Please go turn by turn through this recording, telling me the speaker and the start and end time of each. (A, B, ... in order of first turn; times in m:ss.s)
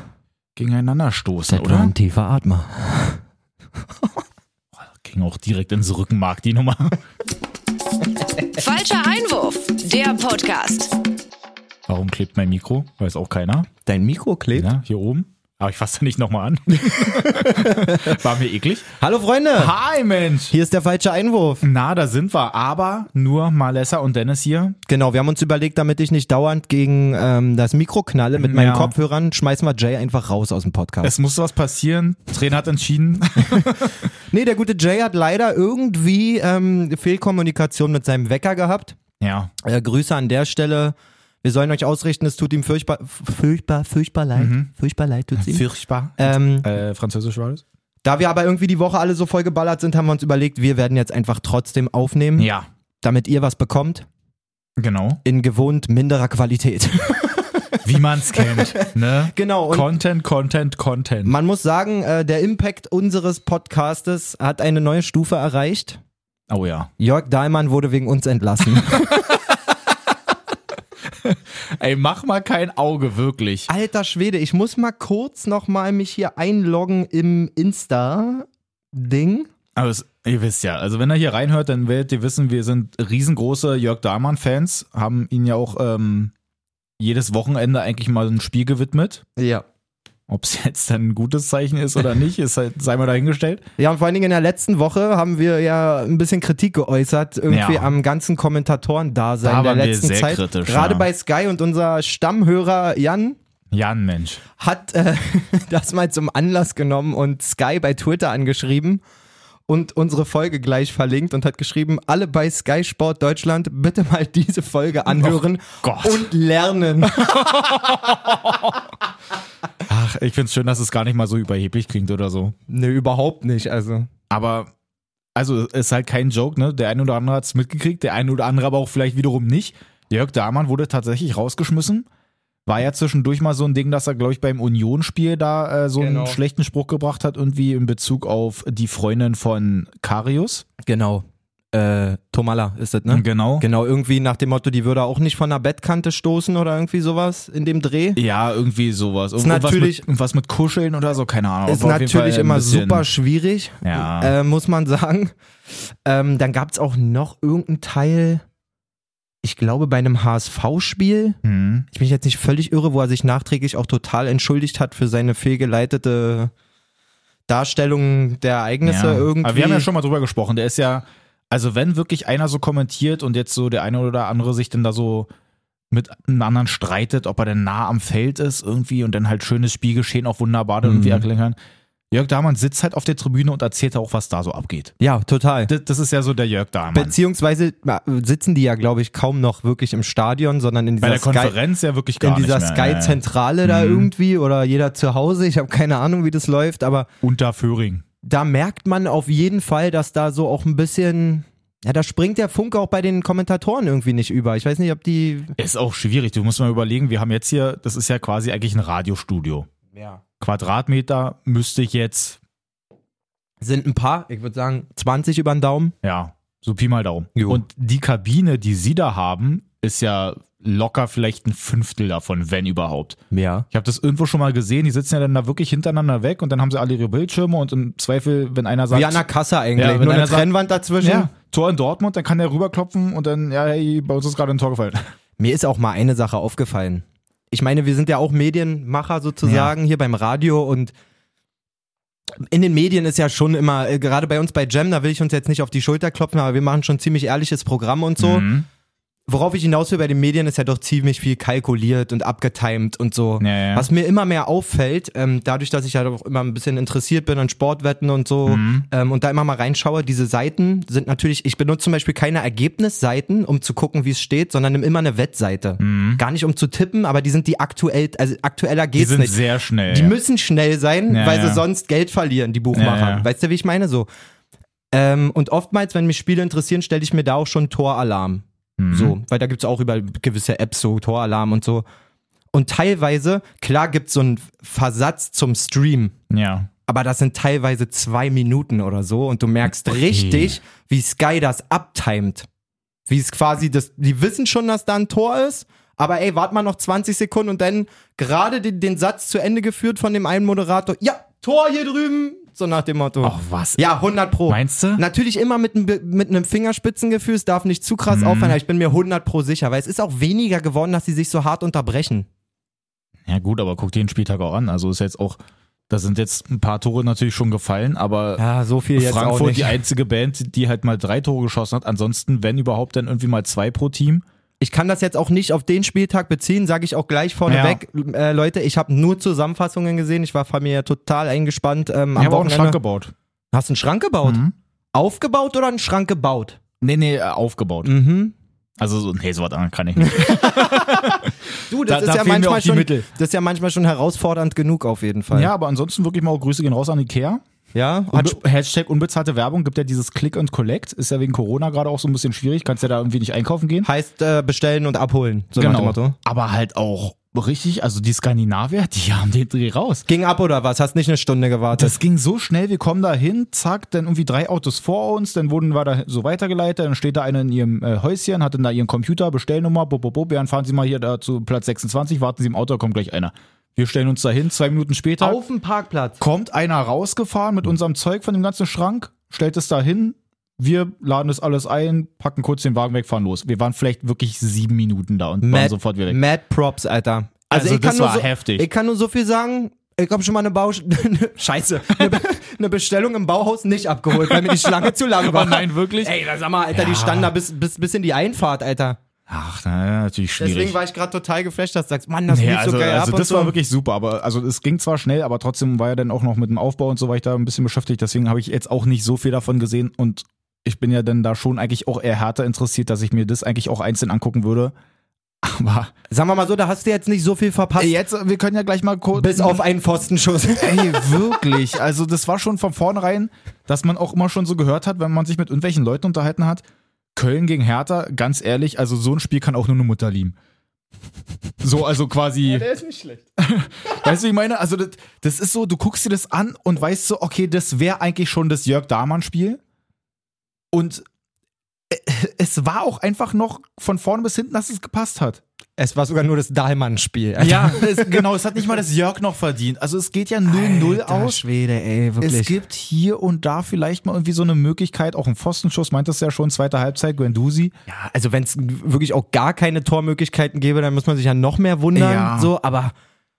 0:00.6-0:01.9 A
0:01.5-0:03.2 B
0:04.8-0:07.0 A
0:08.5-0:11.0 C
0:11.9-0:13.7 A
0:13.8-0:14.7 B
0:14.6-0:19.0 A
0:17.0-0:18.2 B
0:19.0-0:19.7 B
0:19.6-0:20.6 A
0:20.5-0:21.6 B
0:21.6-0:24.8 A
0:24.9-0:31.1 B
0:28.4-0:28.9 A
0:31.0-0:34.0 A
0:33.5-0:39.0 B
0:39.2-0:39.5 A
0:39.6-0:45.6 B
0:44.4-0:44.7 A
0:45.4-0:47.6 A
0:46.2-0:46.7 B
0:48.0-0:52.5 B
0:52.4-0:52.7 A
0:53.0-0:54.1 B
0:54.8-0:55.2 A
0:55.2-0:59.9 B
0:57.8-1:01.3 A
1:01.3-1:06.0 B
1:06.5-1:06.9 A
1:07.0-1:09.3 B
1:11.2-1:13.7 A
1:13.7-1:19.5 B
1:19.8-1:26.3 A
1:27.0-1:29.2 A
1:29.4-1:29.6 B
1:30.3-1:33.6 A
1:33.8-1:43.4 B
1:37.5-1:37.9 A
1:39.4-1:41.1 A
1:43.7-1:44.4 A
1:44.6-1:49.0 B
1:49.7-1:58.3 B
1:55.1-1:56.3 A
1:57.0-1:58.8 A
1:59.9-2:02.6 A
2:02.7-2:04.1 B
2:04.3-2:04.7 A
2:05.4-2:12.1 A
2:12.7-2:20.7 A
2:16.0-2:16.4 B
2:20.8-2:28.2 B
2:23.1-2:23.7 A
2:28.2-2:33.1 A
2:29.4-2:30.0 B
2:31.7-2:38.4 B
2:33.8-2:34.4 A
2:39.4-2:41.4 B
2:41.4-2:41.9 A
2:41.9-2:46.5 B
2:47.5-2:49.9 B
2:48.8-2:55.3 A
2:55.9-3:01.6 A
3:00.8-3:01.2 B
3:02.1-3:05.0 A
3:05.0-3:05.7 B
3:05.7-3:07.2 A
3:06.9-3:11.6 B
3:11.0-3:14.1 A
3:12.2-3:17.1 B
3:17.2-3:18.0 A
3:18.2-3:25.6 B
3:25.6-3:29.7 A
3:29.9-3:30.2 B
3:30.4-3:32.4 A
3:33.6-3:36.0 B
3:36.0-3:43.2 A
3:37.4-3:37.6 B
3:43.3-3:43.7 B
3:43.7-3:55.0 A
3:48.9-3:51.3 B
3:55.4-4:00.9 B
3:59.4-3:59.7 A
4:02.4-4:08.5 B
4:08.2-4:08.7 A
4:09.3-4:34.1 B
4:13.4-4:13.9 A
4:18.5-4:18.9 A
4:25.8-4:26.2 A
4:29.0-4:30.2 A
4:31.1-4:31.6 A
4:32.7-4:33.3 A
4:34.9-4:41.8 B
4:38.8-4:39.2 A
4:42.5-4:46.1 B
4:46.3-4:46.7 A
4:46.9-4:52.5 B
4:49.9-4:50.6 A
4:53.1-5:12.3 B
5:03.2-5:03.8 A
5:04.5-5:05.0 A
5:08.1-5:08.6 A
5:13.3-5:15.4 A
5:15.9-5:18.4 A
5:18.4-5:19.8 B
5:19.0-5:24.2 A
5:24.6-5:32.8 B
5:27.5-5:27.8 A
5:32.2-5:33.1 A
5:33.5-5:34.4 B
5:34.2-5:34.5 A
5:34.9-5:36.6 B
5:36.8-5:37.9 A
5:37.8-5:38.4 B
5:38.8-5:42.9 A
5:40.0-5:45.5 B
5:45.3-5:47.4 A
5:47.7-5:48.4 B
5:48.1-5:53.9 A
5:53.8-5:56.2 B
5:55.6-6:00.1 A
6:00.1-6:02.0 B
6:01.8-6:15.4 A
6:15.2-6:16.2 B
6:16.2-6:26.2 A
6:25.4-6:39.0 B
6:27.5-6:28.7 A
6:34.3-6:36.2 A
6:36.7-6:37.3 A
6:39.3-6:40.8 A
6:40.4-6:43.6 B
6:42.3-6:54.7 A
6:55.4-6:55.9 A
6:56.1-6:58.0 B
6:57.8-6:59.6 A
6:59.1-7:01.3 B
7:00.6-7:06.6 A
7:07.2-7:10.4 A
7:11.6-7:12.7 A
7:12.4-7:13.2 B
7:13.4-7:19.6 A
7:20.7-7:21.0 A
7:21.9-7:25.4 A
7:25.8-7:28.2 B
7:27.4-7:31.4 A
7:30.4-7:32.6 B
7:32.2-7:37.8 A
7:37.9-7:42.9 B
7:42.0-7:42.5 A